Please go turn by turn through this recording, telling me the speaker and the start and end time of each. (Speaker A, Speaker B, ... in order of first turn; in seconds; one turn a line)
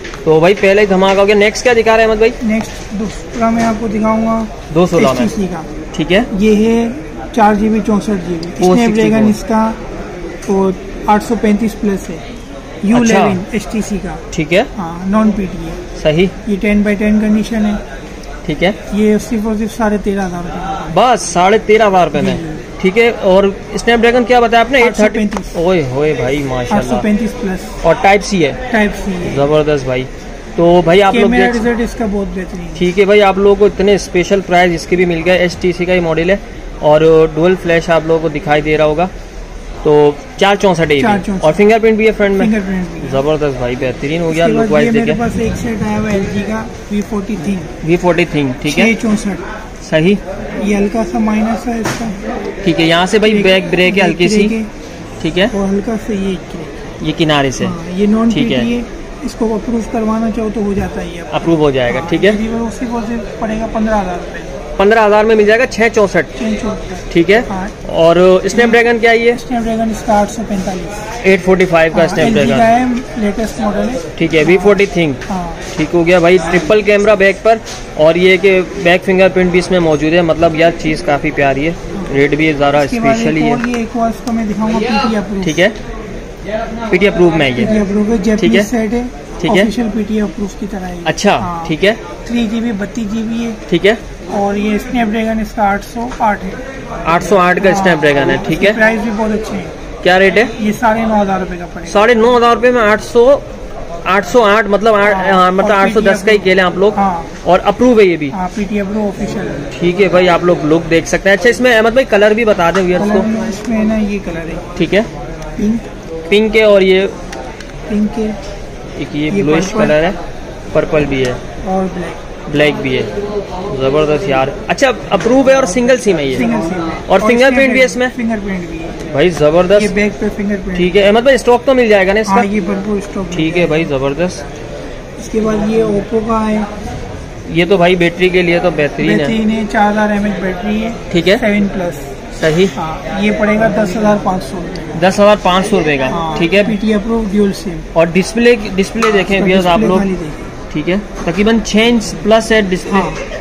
Speaker A: 0.2-2.4
Speaker B: 2.4-5.7
Speaker A: 4.7-5.3
Speaker A: 5.9-6.3
Speaker B: 6.3-9.8
Speaker A: 8.6-9.4
Speaker B: 10.4-12.2
Speaker B: 12.8-14.2
Speaker A: 12.9-13.4
Speaker A: 14.3-14.7
Speaker B: 14.8-15.8
Speaker A: 16.0-16.3
Speaker B: 16.4-17.8
Speaker A: 18.4-18.8
Speaker B: 18.9-20.9
Speaker A: 20.9-27.0
Speaker B: 22.1-22.6
Speaker B: 24.8-25.6
Speaker B: 26.7-27.8
Speaker A: 27.8-28.6
Speaker B: 28.7-29.5
Speaker A: 29.2-31.6
Speaker B: 31.1-32.8
Speaker A: 32.8-39.1
Speaker A: 39.8-45.2
Speaker B: 41.0-41.6
Speaker B: 42.4-43.2
Speaker B: 44.3-47.7
Speaker A: 47.8-48.9
Speaker B: 48.6-49.4
Speaker A: 49.8-50.2
Speaker B: 50.6-52.2
Speaker A: 52.6-54.5
Speaker B: 53.2-54.7
Speaker A: 55.2-55.5
Speaker B: 55.5-56.7
Speaker A: 57.0-57.7
Speaker B: 57.6-64.6
Speaker A: 58.3-58.7
Speaker A: 61.3-62.4
Speaker A: 64.8-66.3
Speaker B: 66.4-67.7
Speaker A: 67.1-69.4
Speaker B: 68.5-71.0
Speaker A: 71.2-72.7
Speaker B: 71.9-75.6
Speaker A: 74.2-75.2
Speaker A: 75.7-83.6
Speaker B: 82.7-85.6
Speaker A: 85.4-85.8
Speaker A: 86.9-87.7
Speaker B: 87.6-93.6
Speaker A: 88.4-88.7
Speaker A: 89.4-89.7
Speaker A: 91.0-92.0
Speaker A: 93.7-94.0
Speaker B: 94.3-96.6
Speaker A: 97.0-98.8
Speaker B: 97.6-99.7
Speaker A: 100.0-100.5
Speaker B: 100.5-102.1
Speaker A: 101.9-103.4
Speaker A: 104.0-108.3
Speaker B: 105.0-107.3
Speaker B: 108.3-109.7
Speaker A: 109.7-113.3
Speaker B: 113.0-114.6
Speaker A: 114.8-115.1
Speaker B: 115.6-115.8
Speaker A: 116.3-117.1
Speaker B: 117.9-118.4
Speaker A: 119.0-120.2
Speaker B: 119.3-120.0
Speaker A: 120.7-121.4
Speaker B: 121.6-122.2
Speaker A: 122.5-123.1
Speaker A: 123.7-126.5
Speaker B: 126.3-129.0
Speaker A: 127.1-128.1
Speaker A: 129.1-129.9
Speaker B: 129.7-131.0
Speaker A: 130.7-132.5
Speaker B: 132.2-133.9
Speaker A: 133.3-134.4
Speaker B: 135.2-136.7
Speaker A: 137.5-139.3
Speaker B: 139.0-142.1
Speaker A: 141.1-141.4
Speaker A: 142.4-142.7
Speaker B: 142.8-145.0
Speaker A: 144.9-146.8
Speaker B: 146.1-147.9
Speaker A: 147.9-150.1
Speaker B: 149.3-150.5
Speaker A: 150.7-153.1
Speaker B: 152.9-153.2